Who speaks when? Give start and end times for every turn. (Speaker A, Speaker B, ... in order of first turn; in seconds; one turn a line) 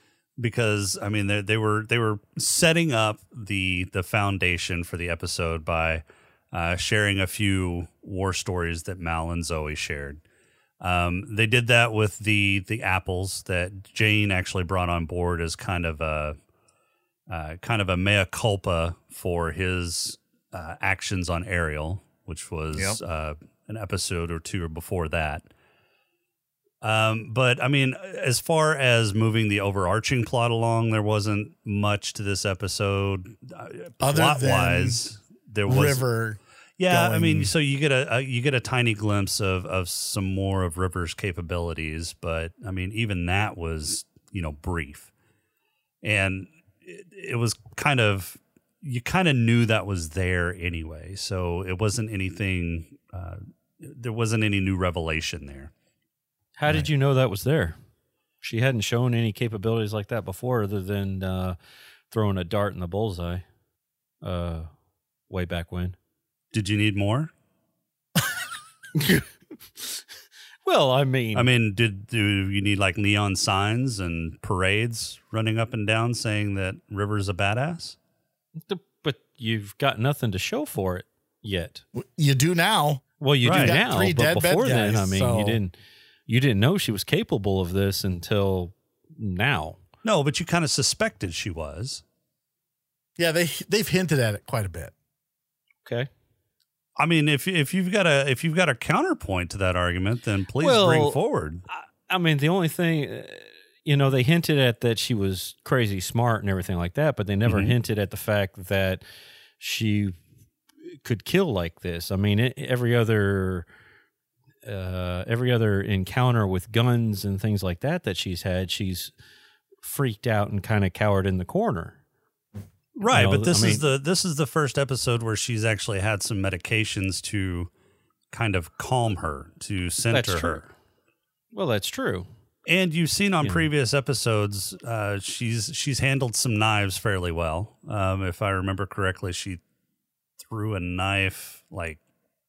Speaker A: 0.4-10.2
Speaker A: 10.8-16.4
Speaker A: 17.3-25.5
Speaker B: 22.7-23.0
Speaker A: 26.8-36.1
Speaker B: 34.0-35.0
Speaker B: 35.7-37.5
Speaker A: 36.8-45.1
Speaker A: 46.0-55.7
Speaker C: 56.6-57.8
Speaker C: 58.4-61.5
Speaker C: 62.1-63.4
Speaker C: 64.2-64.7
Speaker C: 65.3-66.0
Speaker A: 66.5-67.3
Speaker C: 69.0-69.2
Speaker C: 70.6-71.5
Speaker A: 71.3-78.0
Speaker C: 78.6-81.8
Speaker B: 82.0-85.6
Speaker C: 83.2-85.7
Speaker A: 83.4-83.8
Speaker C: 86.3-89.8
Speaker A: 90.0-92.0
Speaker B: 93.2-94.9
Speaker A: 97.0-101.6
Speaker C: 100.6-109.0
Speaker A: 107.5-107.7
Speaker C: 109.6-110.2
Speaker C: 110.9-113.7
Speaker C: 114.6-119.1
Speaker C: 119.8-122.0
Speaker A: 123.0-127.7
Speaker C: 123.1-123.8
Speaker A: 128.3-130.7
Speaker C: 130.1-130.7
Speaker C: 131.5-132.3
Speaker A: 132.7-139.6
Speaker C: 133.4-133.7
Speaker A: 140.4-142.0